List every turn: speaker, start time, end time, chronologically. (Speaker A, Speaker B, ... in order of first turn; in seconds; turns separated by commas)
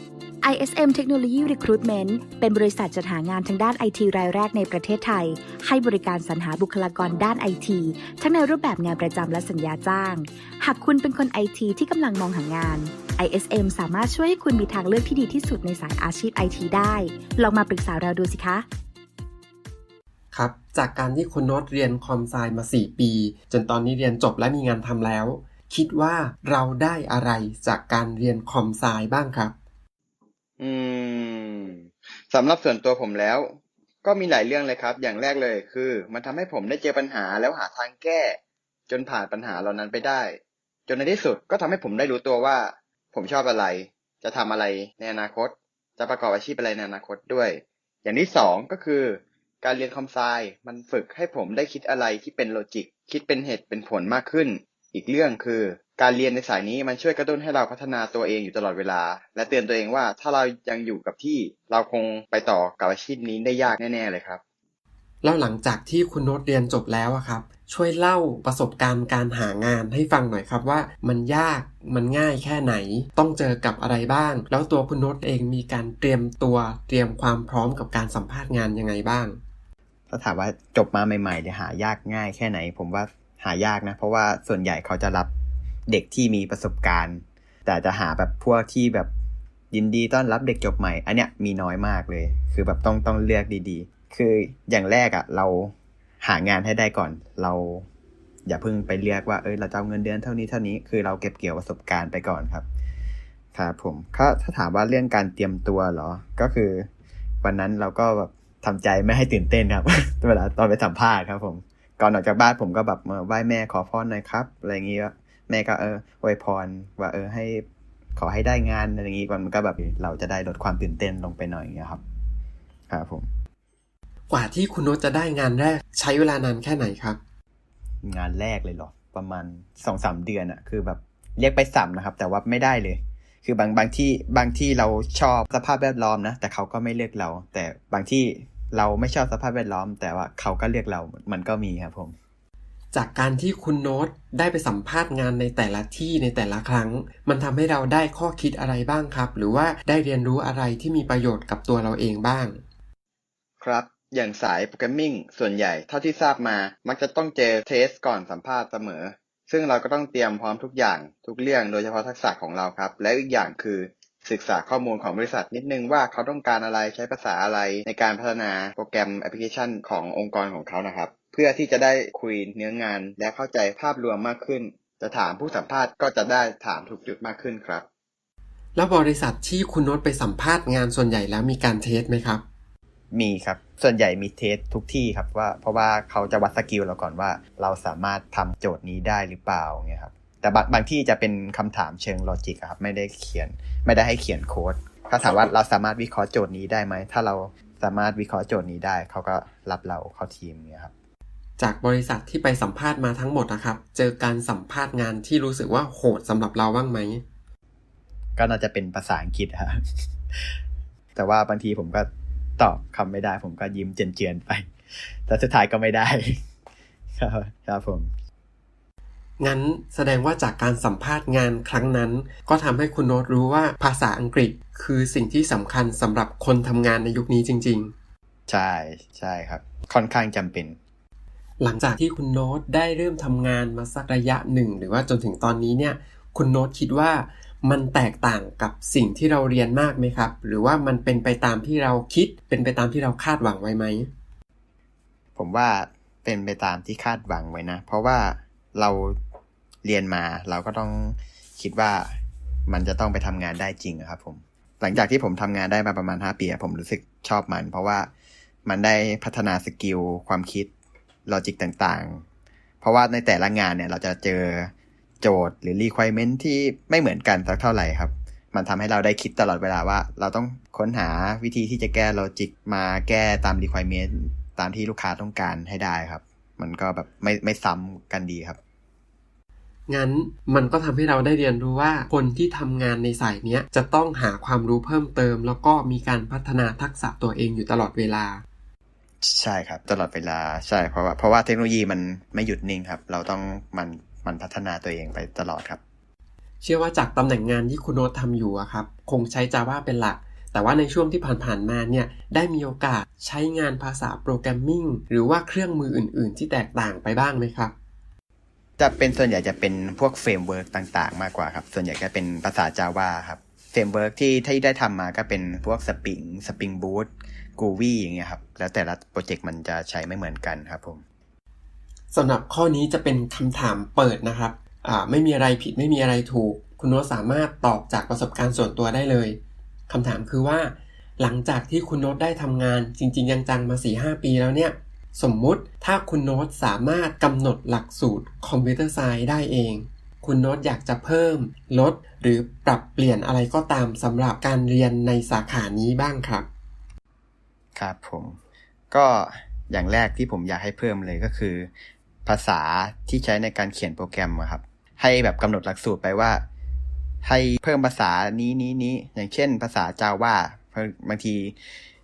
Speaker A: 0.4-18.6, Speaker B: 20.3-29.5, Speaker C: 30.6-64.4, Speaker B: 65.2-79.4, Speaker C: 80.1-85.3, Speaker C: 85.9-89.1, Speaker C: 89.7-97.9, Speaker C: 98.5-102.6, Speaker C: 103.5-106.9, Speaker C: 107.4-117.6, Speaker C: 118.2-122.0, Speaker C: 122.9-123.3, Speaker B: 124.3-127.2, Speaker C: 128.0-142.1, Speaker B: 142.9-152.6, Speaker C: 153.6-177.8, Speaker B: 178.8-182.4, Speaker C: 183.1-200.9, Speaker B: 201.6-207.2, Speaker C: 208.4-210.6, Speaker C: 211.1-216.4, Speaker C: 217.1-218.1, Speaker B: 219.4-227.9, Speaker C: 228.5-230.8, Speaker B: 231.6-244.1, Speaker C: 245.3-249.2, Speaker C: 249.8-252.2, Speaker C: 252.7-258.1, Speaker C: 258.6-260.7, Speaker C: 261.2-262.2, Speaker C: 262.8-278.6, Speaker B: 279.9-288.4, Speaker C: 289.2-295.8, Speaker B: 296.6-307.7, Speaker C: 308.8-321.0, Speaker B: 322.1-346.5, Speaker C: 347.7-348.4, Speaker C: 348.9-351.7, Speaker C: 352.2-356.4, Speaker C: 357.2-361.6